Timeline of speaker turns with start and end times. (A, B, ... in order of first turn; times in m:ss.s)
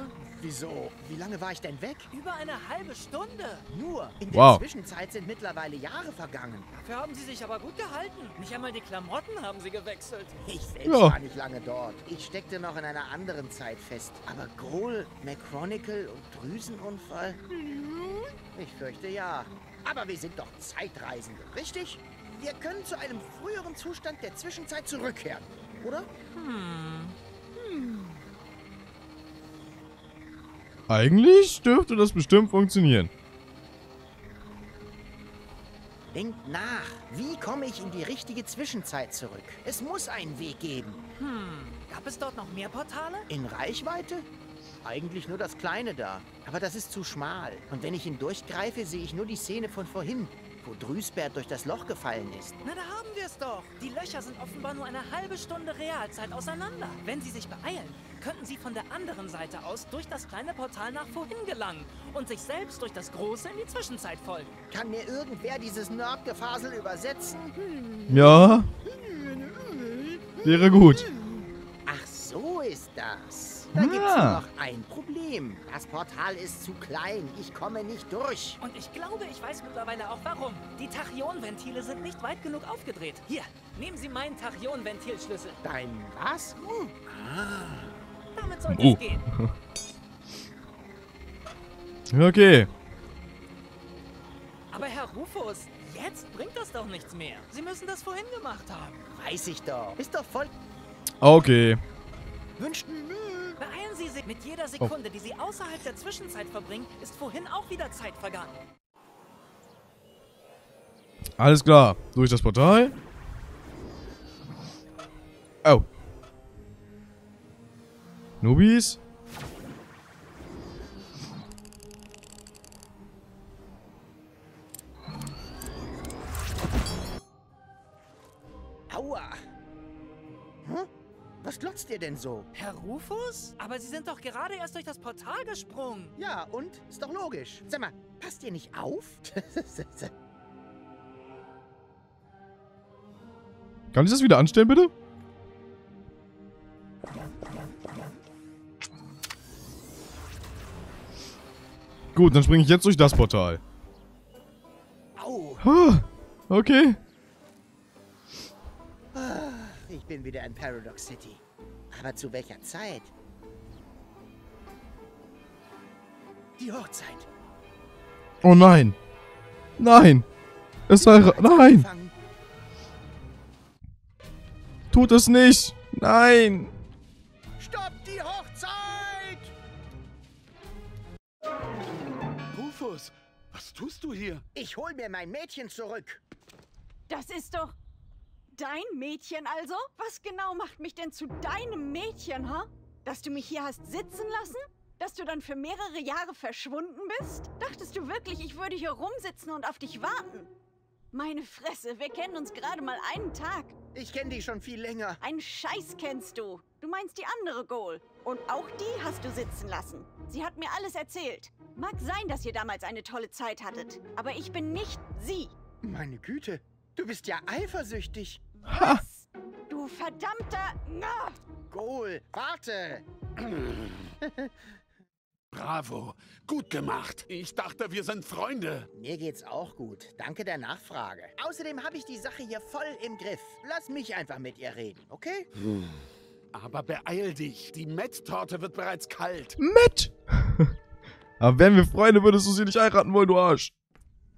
0:00.1-0:02.1 A
0:02.1-0:03.6 B
0:03.7-0:06.7 A
0:04.3-0:04.6 C
0:06.7-0:10.4 B
0:10.4-0:17.4 A
0:10.8-0:11.2 C
0:17.5-0:18.3 B
0:18.5-0:26.1 A
0:26.3-0:28.2 B
0:30.9-0:33.1 C
0:36.1-0:41.0 A
0:41.2-0:43.2 B
0:43.3-0:44.2 A
0:44.8-0:52.6 A
0:52.6-1:04.5 B
1:04.7-1:07.4 A
1:07.6-1:08.0 B
1:08.1-1:08.7 C
1:10.4-1:11.1 C
1:11.8-1:18.6 A
1:13.7-1:14.4 C
1:18.6-1:25.6 B
1:25.6-1:28.0 A
1:28.4-1:29.2 B
1:28.7-1:29.6 C
1:32.1-1:32.7 C
1:34.7-1:39.0 B
1:39.1-1:40.5 A
1:41.2-1:41.8 C
1:42.6-1:43.6 A
1:43.6-1:48.5 B
1:51.4-1:52.9 C
1:58.4-1:59.0 C
2:08.9-2:09.4 A
2:10.6-2:10.9 A
2:11.4-2:12.5 A
2:12.5-2:16.1 B
2:16.2-2:20.1 A
2:23.9-2:24.9 C
2:32.1-2:33.6 C
2:35.2-2:35.6 A
2:35.6-2:37.0 C
2:39.1-2:43.1 A
2:46.6-2:47.3 A
2:48.4-2:49.0 C
2:49.8-2:50.2 C
2:50.9-2:51.9 C
2:50.9-2:52.1 A
2:54.9-2:56.7 C
2:57.6-2:59.5 A
3:02.5-3:04.4 D
3:04.5-3:06.2 A
3:07.1-3:07.8 E
3:08.6-3:20.5 E
3:21.1-3:23.7 E
3:23.9-3:25.2 A
3:25.2-3:35.5 E
3:35.8-3:38.4 A
3:38.6-3:39.1 B
3:38.7-3:39.0 C
3:39.2-3:41.3 E
3:41.7-3:43.0 A
3:43.4-3:43.9 D
3:44.2-3:44.5 A
3:45.5-3:48.9 D
3:48.9-3:55.5 A
3:56.5-3:59.6 D
3:59.6-4:00.7 C
4:01.4-4:03.7 C